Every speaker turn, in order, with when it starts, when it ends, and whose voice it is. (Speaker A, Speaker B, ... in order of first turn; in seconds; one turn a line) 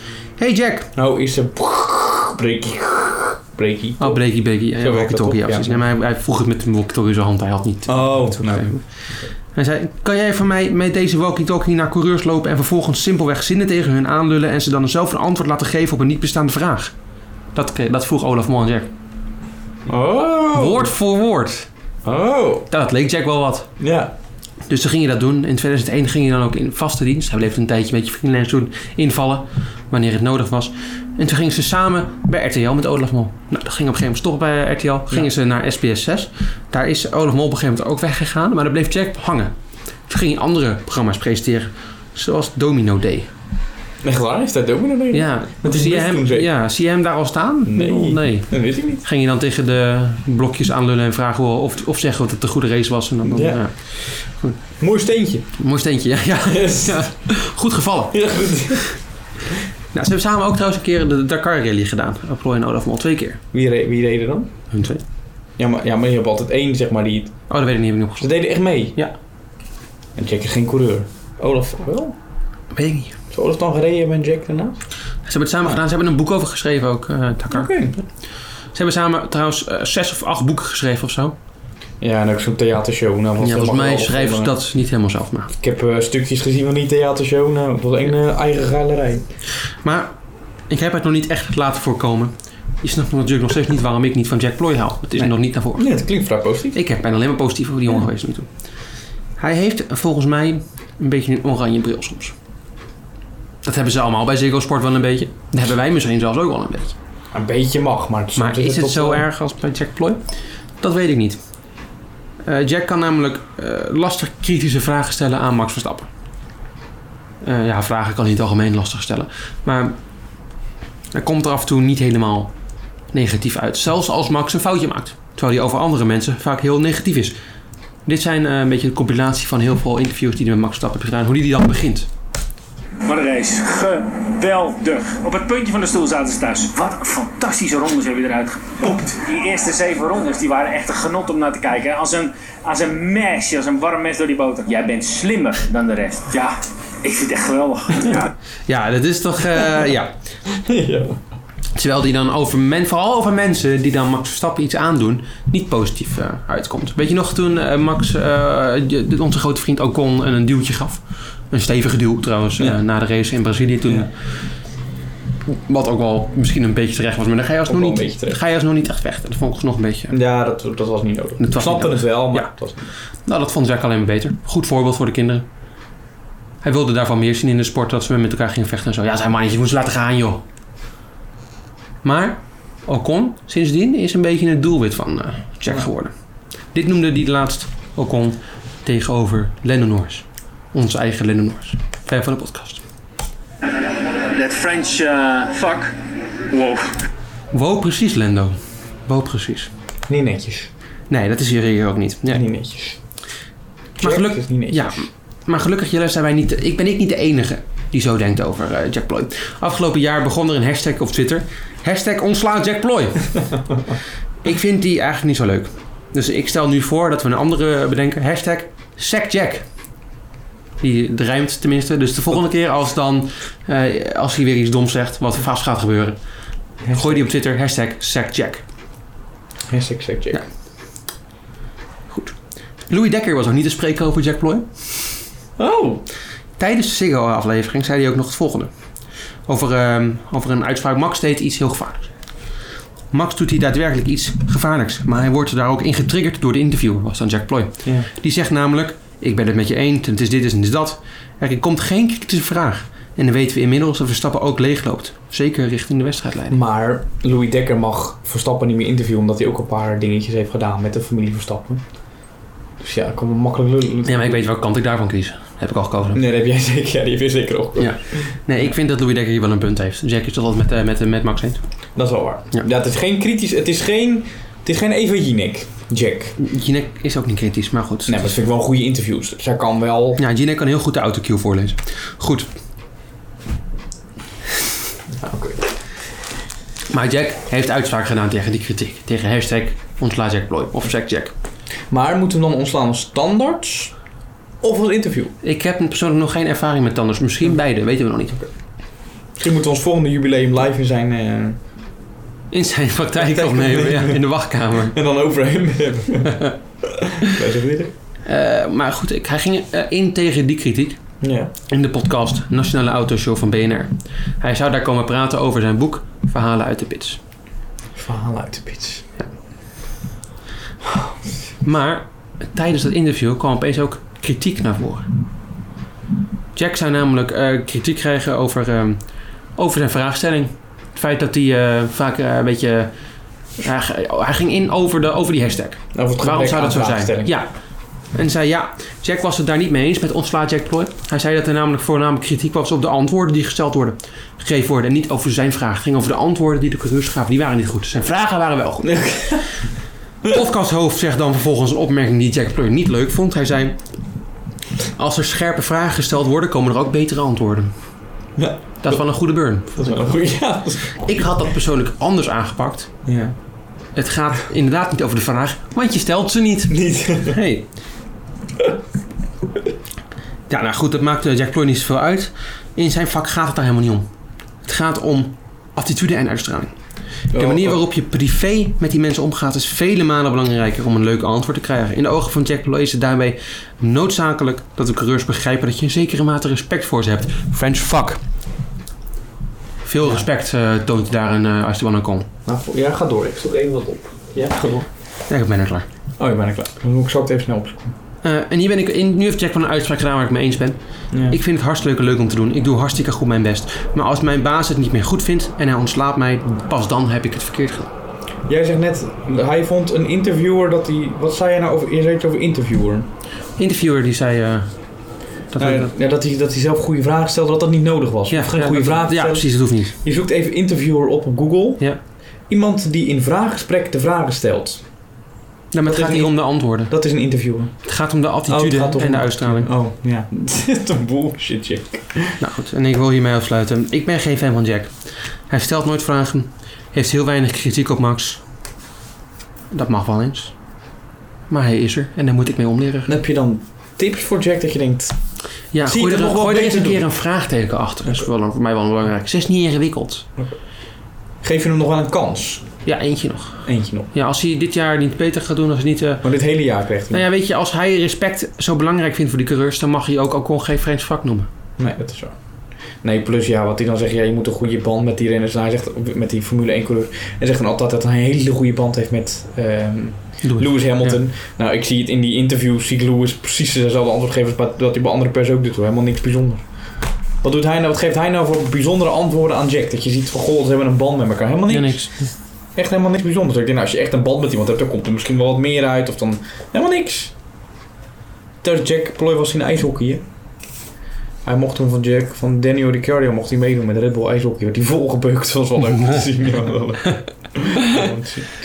Speaker A: 0.4-0.9
Speaker B: 1.0-5.8
Speaker A: 4.0-16.9
Speaker B: 7.9-9.2
Speaker A: 17.5-18.9
Speaker B: 19.9-20.9
Speaker A: 20.5-21.7
Speaker B: 22.1-22.7
Speaker A: 22.7-23.7
Speaker B: 23.8-24.1
Speaker A: 24.7-39.5
Speaker A: 40.1-43.3
Speaker B: 44.0-46.5
Speaker A: 45.1-54.7
Speaker B: 47.6-49.0
Speaker B: 53.2-54.0
Speaker B: 54.8-55.5
Speaker A: 55.6-58.8
Speaker B: 56.5-57.2
Speaker B: 58.1-59.0
Speaker A: 59.9-63.4
Speaker B: 63.5-64.5
Speaker A: 64.7-65.0
Speaker B: 65.6-67.5
Speaker A: 67.5-69.2
Speaker B: 68.2-69.0
Speaker B: 70.2-72.2
Speaker A: 72.7-73.2
Speaker B: 73.3-74.8
Speaker A: 75.2-78.1
Speaker B: 77.5-78.0
Speaker A: 78.7-81.4
Speaker B: 82.0-84.5
Speaker A: 83.4-85.5
Speaker B: 85.6-89.3
Speaker A: 89.8-90.1
Speaker A: 90.7-96.1
Speaker B: 95.2-96.8
Speaker A: 96.7-98.6
Speaker A: 99.4-102.3
Speaker A: 103.6-107.0
Speaker B: 107.3-109.3
Speaker A: 108.4-110.3
Speaker A: 110.8-111.4
Speaker A: 112.4-116.1
Speaker A: 117.4-120.0
Speaker A: 121.1-122.5
Speaker A: 123.1-127.4
Speaker A: 128.1-132.1
Speaker C: 133.0-148.3
Speaker A: 148.7-150.2
Speaker B: 150.6-151.2
Speaker A: 151.8-164.1
Speaker A: 165.5-170.2
Speaker B: 167.7-168.4
Speaker B: 170.1-172.9
Speaker A: 171.4-172.7
Speaker A: 173.2-175.5
Speaker A: 176.6-180.4
Speaker A: 182.0-186.1
Speaker A: 186.7-192.8
Speaker C: 194.1-197.1
Speaker A: 197.5-199.7
Speaker B: 200.1-200.7
Speaker A: 201.1-202.5
Speaker B: 202.3-203.0
Speaker B: 204.0-205.0
Speaker A: 204.0-213.7
Speaker A: 214.4-219.7
Speaker A: 220.8-228.6
Speaker B: 226.8-227.2
Speaker B: 229.7-230.4
Speaker A: 232.1-235.1
Speaker B: 235.6-236.0
Speaker A: 236.6-238.7
Speaker A: 239.5-242.1
Speaker A: 243.1-256.6
Speaker B: 247.8-248.1
Speaker B: 256.5-262.0
Speaker B: 262.8-264.4
Speaker A: 264.1-266.2
Speaker B: 266.1-268.3
Speaker A: 267.8-271.6
Speaker B: 272.0-276.4
Speaker A: 276.4-278.4
Speaker B: 278.1-280.2
Speaker A: 280.2-282.5
Speaker B: 285.2-285.6
Speaker A: 286.9-291.3
Speaker B: 291.9-293.9
Speaker B: 294.6-295.3
Speaker A: 295.4-298.4
Speaker B: 298.3-301.6
Speaker A: 302.5-305.0
Speaker B: 303.2-304.2
Speaker B: 304.9-306.5
Speaker B: 307.2-307.9
Speaker A: 308.3-317.2
Speaker B: 311.2-311.5
Speaker B: 317.9-319.1
Speaker A: 321.6-325.1
Speaker A: 326.6-332.9
Speaker A: 333.6-349.5
Speaker B: 335.9-337.3
Speaker B: 348.8-349.5
Speaker A: 350.2-353.8
Speaker A: 355.0-357.7
Speaker B: 358.4-359.0
Speaker A: 358.8-360.1
Speaker B: 359.8-361.0
Speaker A: 361.0-362.9
Speaker B: 363.1-363.4
Speaker A: 363.9-367.7
Speaker B: 366.7-367.4
Speaker A: 370.5-374.1
Speaker A: 374.6-376.8
Speaker B: 377.3-377.8
Speaker A: 377.3-388.2
Speaker A: 389.9-392.3
Speaker B: 390.0-390.3
Speaker B: 392.5-394.9
Speaker A: 395.3-395.9
Speaker B: 396.2-398.0
Speaker A: 398.2-407.9
Speaker B: 401.1-401.4
Speaker B: 408.5-413.1
Speaker A: 413.6-415.9
Speaker B: 415.6-425.1
Speaker A: 418.3-420.0
Speaker A: 425.7-426.9
Speaker B: 425.9-427.9
Speaker A: 427.8-429.7
Speaker B: 428.5-432.4
Speaker A: 432.4-438.4
Speaker A: 439.7-440.6
Speaker A: 441.5-443.1
Speaker B: 443.1-445.2
Speaker A: 445.7-450.3
Speaker B: 445.8-447.0
Speaker B: 451.4-452.7
Speaker A: 452.9-456.3
Speaker B: 453.6-454.1
Speaker B: 456.2-457.2
Speaker A: 457.1-461.5
Speaker B: 461.8-487.4
Speaker A: 470.4-471.2
Speaker A: 481.7-482.3
Speaker B: 488.6-490.2
Speaker B: 491.4-498.5